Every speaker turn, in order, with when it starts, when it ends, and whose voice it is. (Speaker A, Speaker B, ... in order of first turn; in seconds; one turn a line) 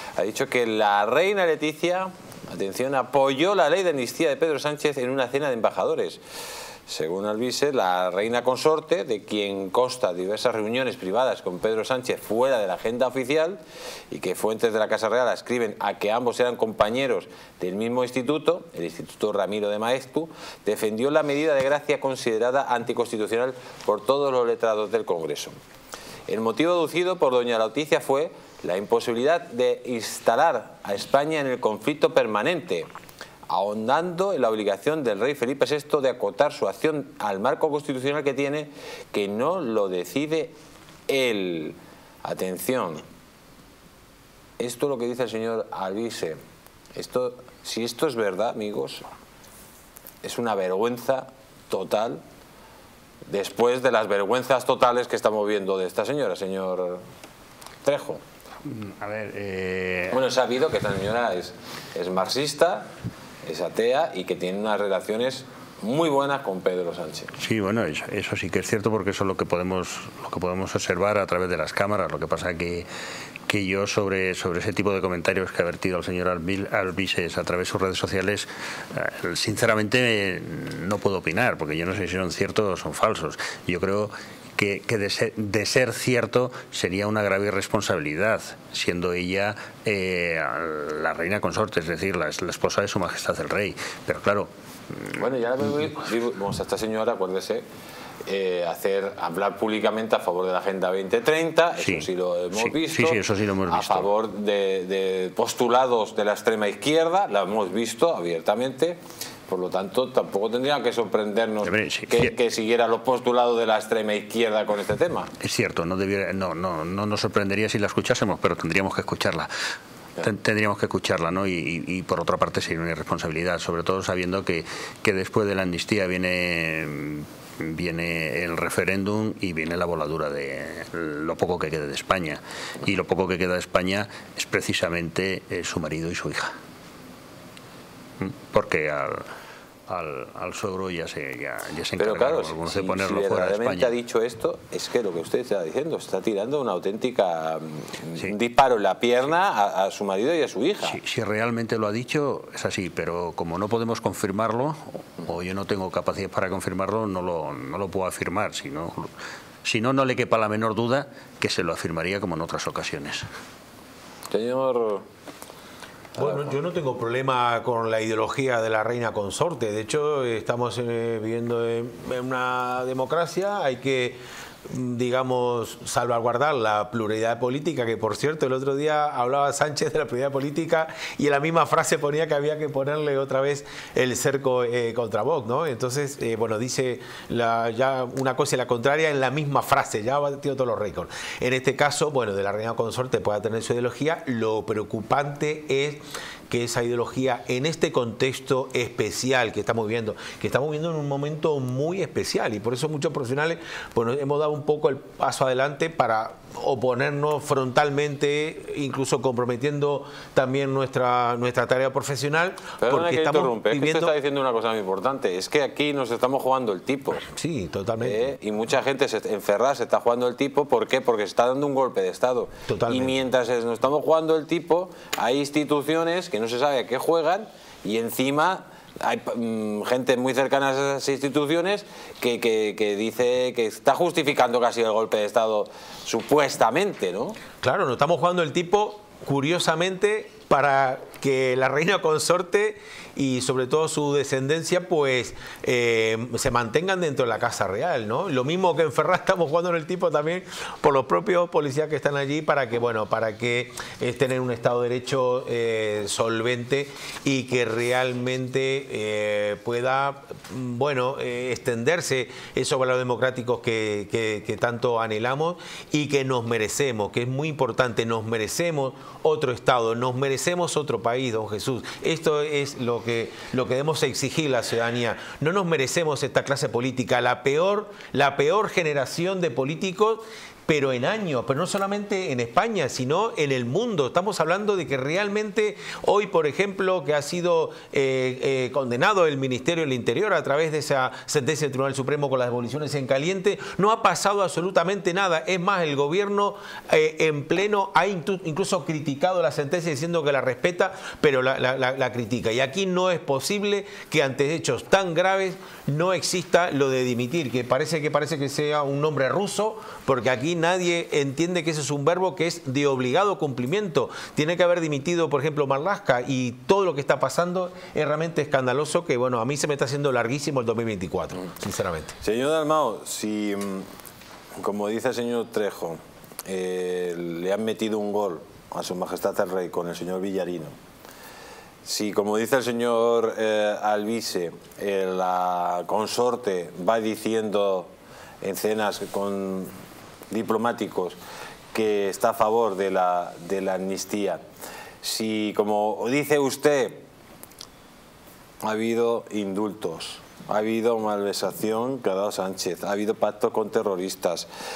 Speaker A: 0.1-6.2
Speaker A: 6.9-25.5
Speaker A: 26.3-32.9
Speaker A: 33.5-40.5
Speaker A: 41.1-43.0
Speaker A: 44.6-46.4
Speaker A: 46.9-49.0
Speaker A: 50.2-52.2
Speaker A: 53.3-57.0
Speaker A: 57.8-58.2
Speaker B: 58.6-60.2
Speaker A: 60.1-62.9
Speaker A: 63.4-67.3
Speaker B: 67.4-72.9
Speaker B: 73.5-95.2
Speaker A: 95.2-97.6
Speaker A: 98.2-115.3
Speaker B: 101.8-104.1
Speaker B: 111.6-112.3
Speaker B: 115.4-119.5
Speaker B: 120.2-136.5
Speaker B: 138.2-139.2
Speaker B: 139.9-143.9
Speaker A: 142.0-151.0
Speaker B: 150.8-159.1
Speaker B: 159.6-163.2
Speaker A: 164.3-165.0
Speaker C: 166.2-214.1
Speaker A: 212.8-217.2
Speaker C: 217.3-218.3
Speaker A: 218.0-237.4
Speaker C: 222.7-223.1
Speaker C: 237.6-322.1
Speaker A: 322.2-323.9
Speaker A: 324.6-330.7
Speaker A: 331.8-337.9
Speaker A: 338.4-339.7
Speaker A: 340.3-341.2
Speaker A: 341.7-344.4
Speaker A: 345.0-347.0
Speaker A: 348.6-354.5